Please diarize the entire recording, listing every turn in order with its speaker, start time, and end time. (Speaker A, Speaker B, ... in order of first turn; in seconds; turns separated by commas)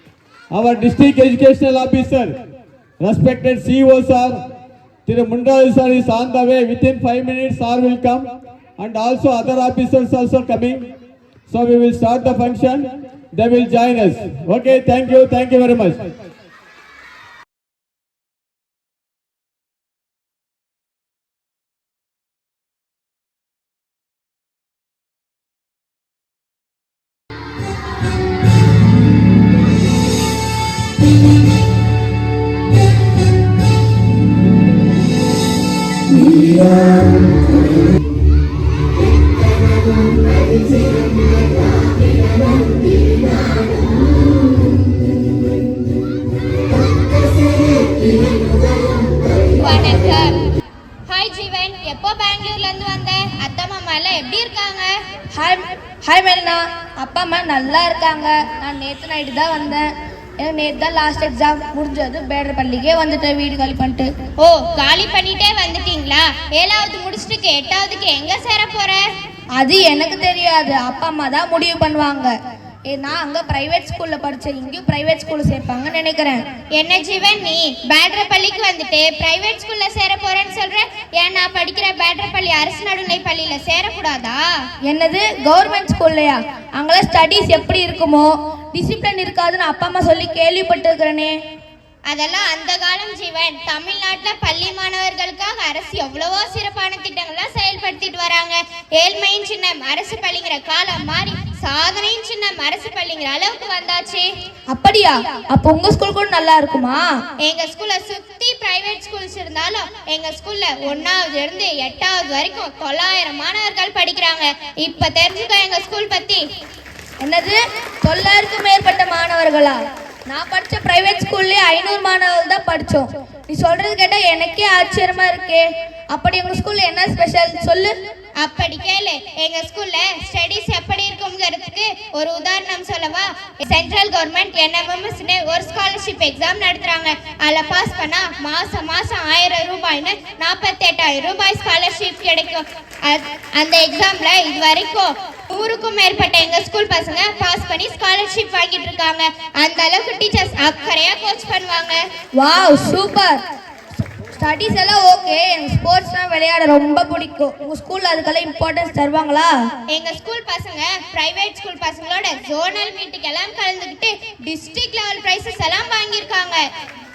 Speaker A: 0.5-2.4, Speaker A: 3.0-4.4, Speaker A: 5.0-10.9, Speaker A: 11.5-16.0, Speaker B: 49.6-50.3, Speaker B: 51.1-54.9, Speaker C: 55.4-59.9, Speaker C: 60.4-64.1, Speaker B: 64.4-69.0, Speaker C: 69.6-72.3, Speaker C: 72.9-76.4, Speaker B: 76.8-84.4, Speaker C: 84.8-91.3, Speaker B: 92.1-104.3, Speaker C: 104.7-107.0, Speaker B: 107.4-116.4, Speaker C: 117.2-127.9, Speaker B: 128.4-152.0, Speaker C: 152.4-153.4, Speaker C: 154.3-159.5, Speaker B: 159.9-166.6